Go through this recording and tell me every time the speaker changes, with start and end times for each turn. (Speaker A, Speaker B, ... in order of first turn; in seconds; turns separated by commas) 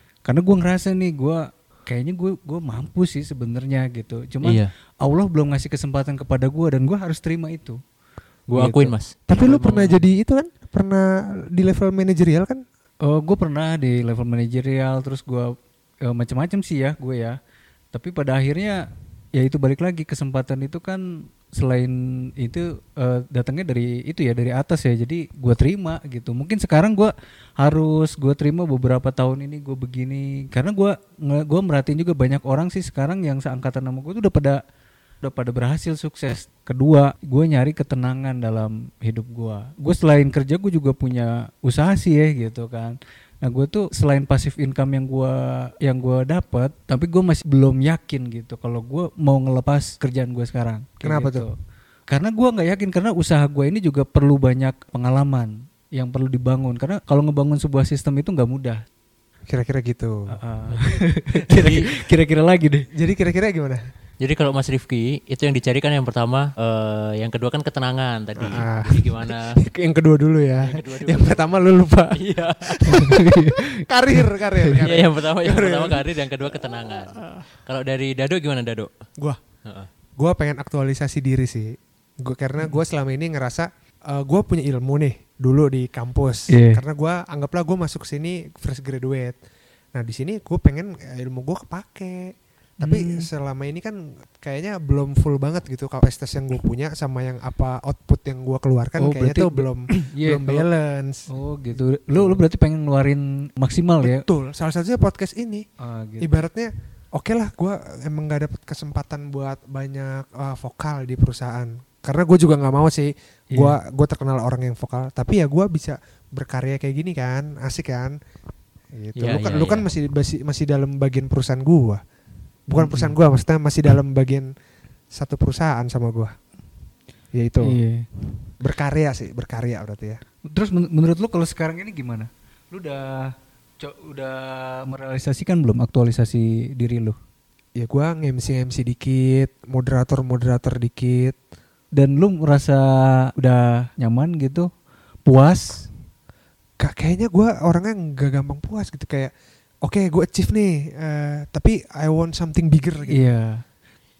Speaker A: 0.2-7.8, Speaker B: 4.4-4.7, Speaker B: 8.5-10.0, Speaker A: 8.5-8.9, Speaker C: 9.3-12.6, Speaker A: 13.0-15.5, Speaker A: 16.0-17.4, Speaker A: 17.9-18.9, Speaker A: 19.4-34.6, Speaker A: 35.2-51.5, Speaker C: 51.0-51.5, Speaker A: 52.1-58.8, Speaker C: 59.5-60.4, Speaker A: 60.3-62.9, Speaker B: 61.5-61.9, Speaker C: 62.9-63.9, Speaker B: 64.2-69.6, Speaker C: 68.4-77.4, Speaker B: 70.6-71.6, Speaker B: 72.1-73.2, Speaker A: 72.9-73.8, Speaker B: 74.8-78.9, Speaker B: 79.6-79.9, Speaker C: 80.2-89.4, Speaker A: 86.5-86.8, Speaker C: 89.9-101.3, Speaker A: 92.8-93.3, Speaker A: 99.0-100.7, Speaker A: 101.3-104.2, Speaker C: 102.1-102.4, Speaker C: 104.0-105.7, Speaker A: 105.8-106.3, Speaker C: 106.2-118.2, Speaker C: 118.9-122.0, Speaker B: 119.2-119.9, Speaker C: 122.7-124.5, Speaker A: 122.7-123.1, Speaker C: 125.1-126.3, Speaker C: 127.3-127.8, Speaker A: 127.6-128.1, Speaker C: 128.6-130.2, Speaker A: 130.5-137.2, Speaker C: 137.8-141.3, Speaker A: 141.9-144.7, Speaker A: 145.2-145.9, Speaker C: 146.8-153.2, Speaker A: 153.1-153.6